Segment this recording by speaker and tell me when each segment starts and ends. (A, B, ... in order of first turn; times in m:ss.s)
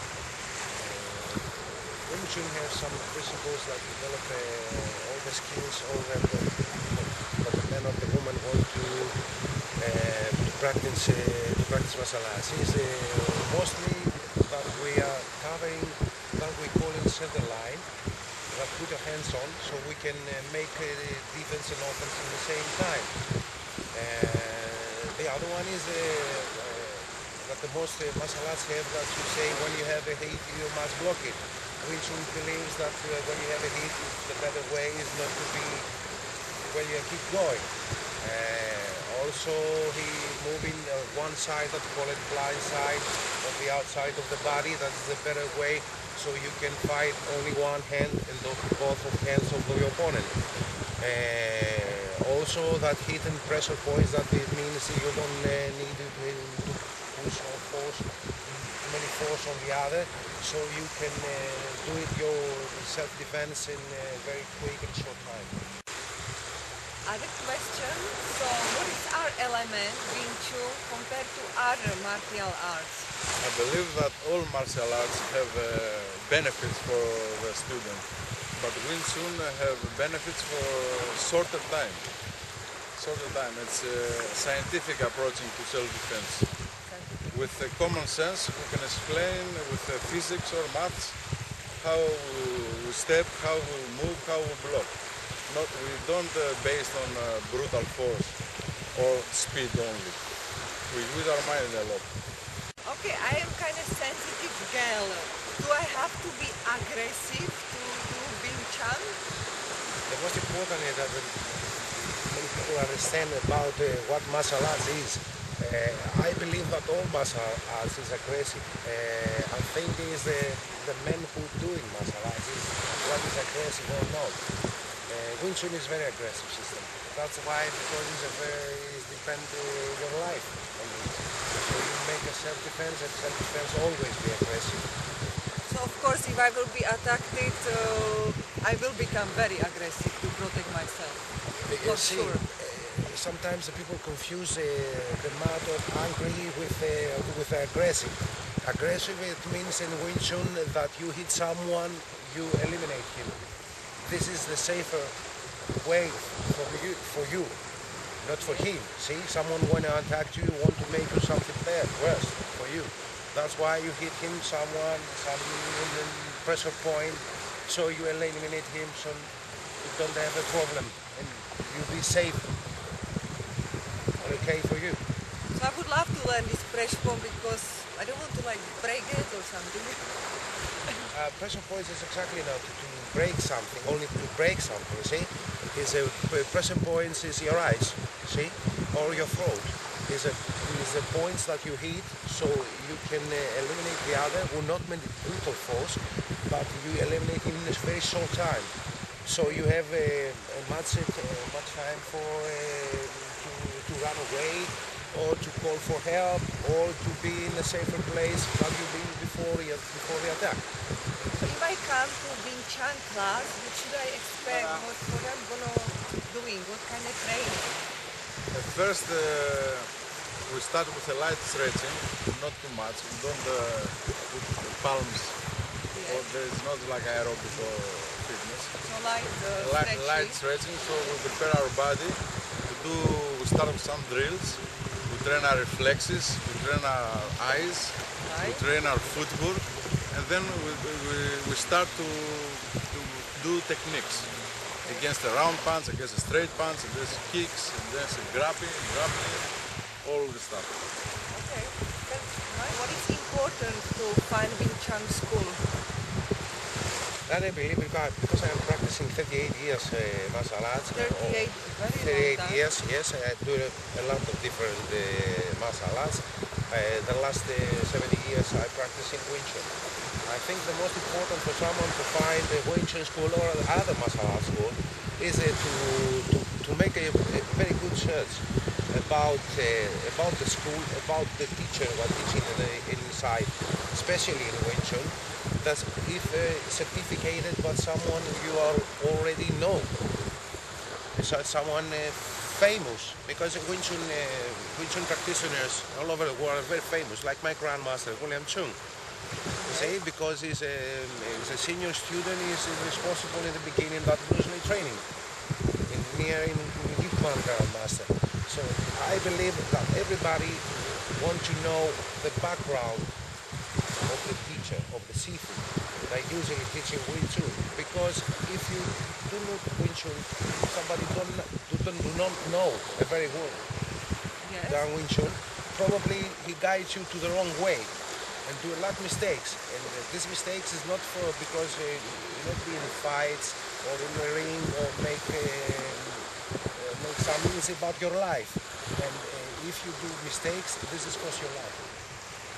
0:00.7-0:09.2 A
0:09.8-0:17.9 A
0:18.5-0:23.2 A
0:23.9-0:35.9 A
0:36.6-0:50.4 A
0:51.0-1:05.6 A
1:07.0-1:13.1 B
1:13.4-1:22.1 C
1:23.0-1:26.5 C
1:26.8-1:27.6 B
1:27.3-1:31.2 C
1:31.8-1:34.9 C
1:35.5-1:38.4 C
1:38.9-1:40.2 C
1:40.9-1:42.1 C
1:42.8-1:49.2 B
1:50.1-2:04.4 A
2:05.1-2:14.9 A
2:15.7-2:21.2 B
2:21.6-2:33.4 A
2:21.8-2:22.4 B
2:34.0-2:35.2 A
2:35.8-2:37.6 A
2:38.2-2:52.5 A
2:38.4-2:38.7 B
2:54.0-2:54.5 B
2:54.2-2:55.0 A
2:55.5-3:00.2 B
3:01.1-3:18.8 A
3:08.9-3:09.3 B
3:19.3-3:30.6 A
3:31.3-3:37.9 B
3:34.4-3:34.9 C
3:38.5-3:39.9 C
3:40.5-3:45.4 C
3:45.9-3:46.3 B
3:46.0-3:48.7 C
3:48.8-3:50.4 B
3:49.6-4:04.3 C
3:58.2-3:58.7 B
4:04.8-4:05.1 B
4:04.8-4:09.5 C
4:10.0-4:10.8 C
4:11.3-4:15.6 B
4:17.3-4:29.7 A
4:20.8-4:22.6 B
4:30.2-4:50.0 A
4:51.2-4:58.8 A
4:59.6-5:00.0 B
4:59.7-5:05.1 A
5:05.9-5:13.1 A
5:14.1-5:23.6 A
5:24.4-5:24.9 B
5:24.7-5:41.9 A